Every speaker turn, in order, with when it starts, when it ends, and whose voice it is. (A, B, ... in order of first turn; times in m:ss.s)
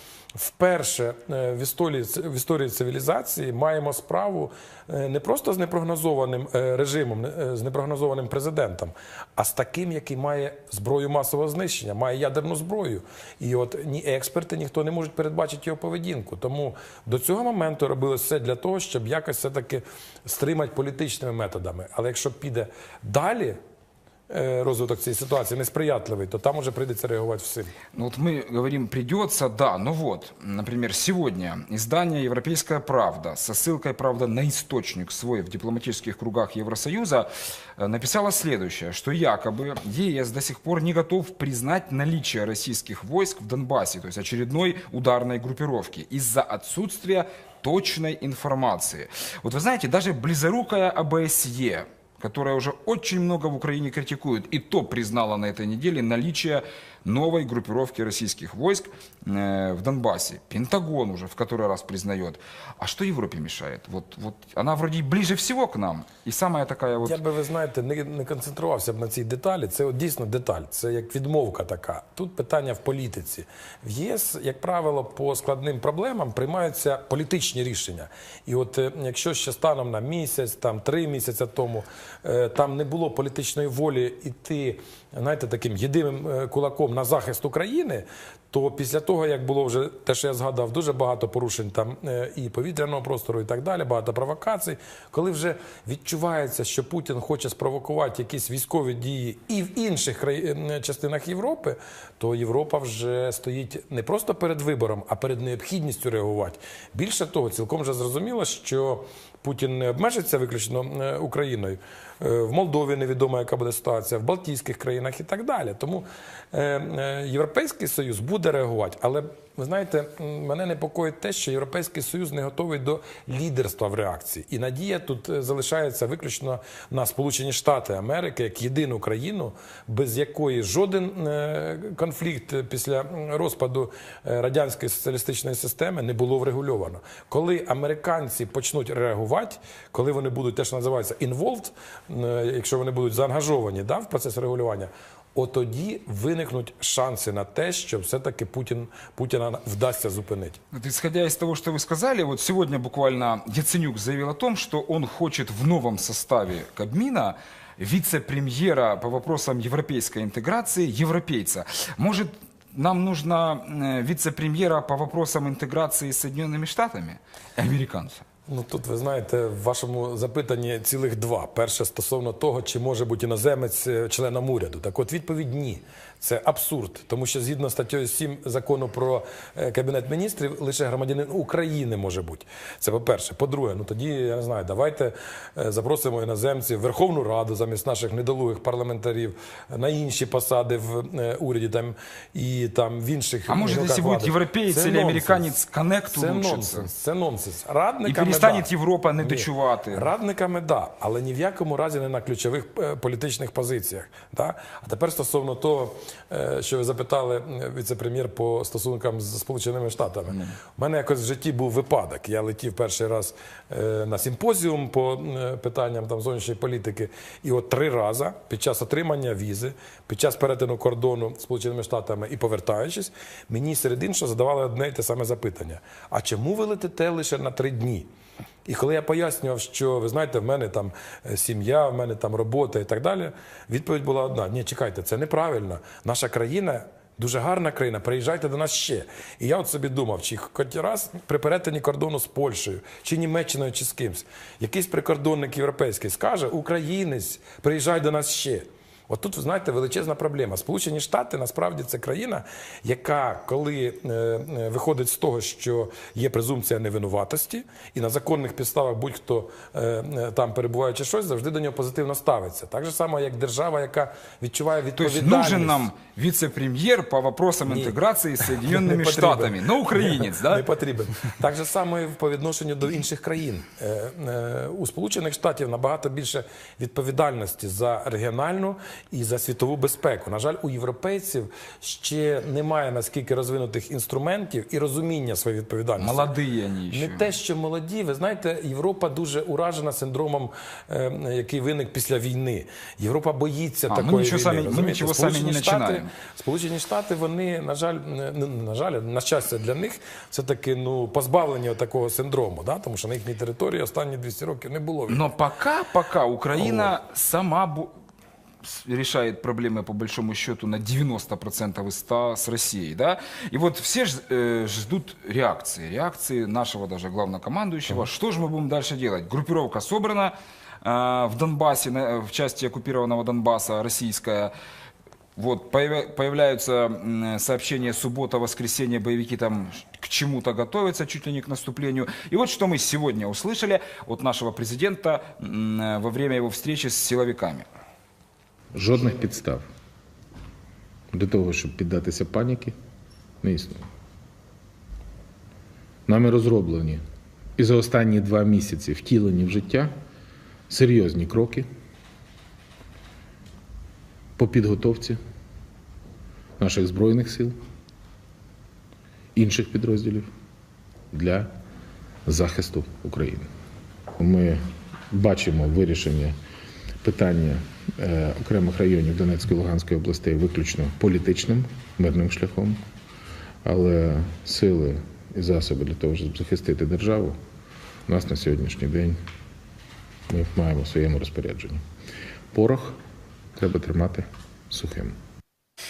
0:00.3-0:23.6 A
0:24.3-0:27.8 A
0:27.9-1:07.2 B
1:07.0-2:30.6 A
2:30.7-2:48.2 B
2:48.5-3:15.5 A
3:13.5-3:16.9 B
3:16.1-3:48.1 A
3:18.0-3:20.1 B
3:48.6-4:25.9 A
4:25.0-4:30.6 B
4:27.7-4:46.3 A
4:46.0-4:47.3 B
4:46.9-5:05.3 A
4:53.9-4:56.1 B
5:05.1-5:07.9 B
5:06.6-5:06.9 A
5:08.6-5:24.5 B
5:25.4-5:37.7 B
5:38.7-5:39.7 C
5:41.1-5:42.8 C
5:43.4-5:43.9 C
5:46.1-5:47.0 C
5:47.6-5:49.9 C
5:50.7-5:51.7 C
5:54.4-5:55.2 C
5:56.6-5:57.6 C
5:59.3-6:00.3 C
6:01.1-6:01.5 C
6:02.2-6:03.5 C
6:04.2-6:06.4 C
6:07.0-6:12.8 C
6:13.6-6:17.4 C
6:18.1-6:19.2 C
6:20.3-6:21.8 C
6:22.5-6:23.0 C
6:23.6-6:25.2 C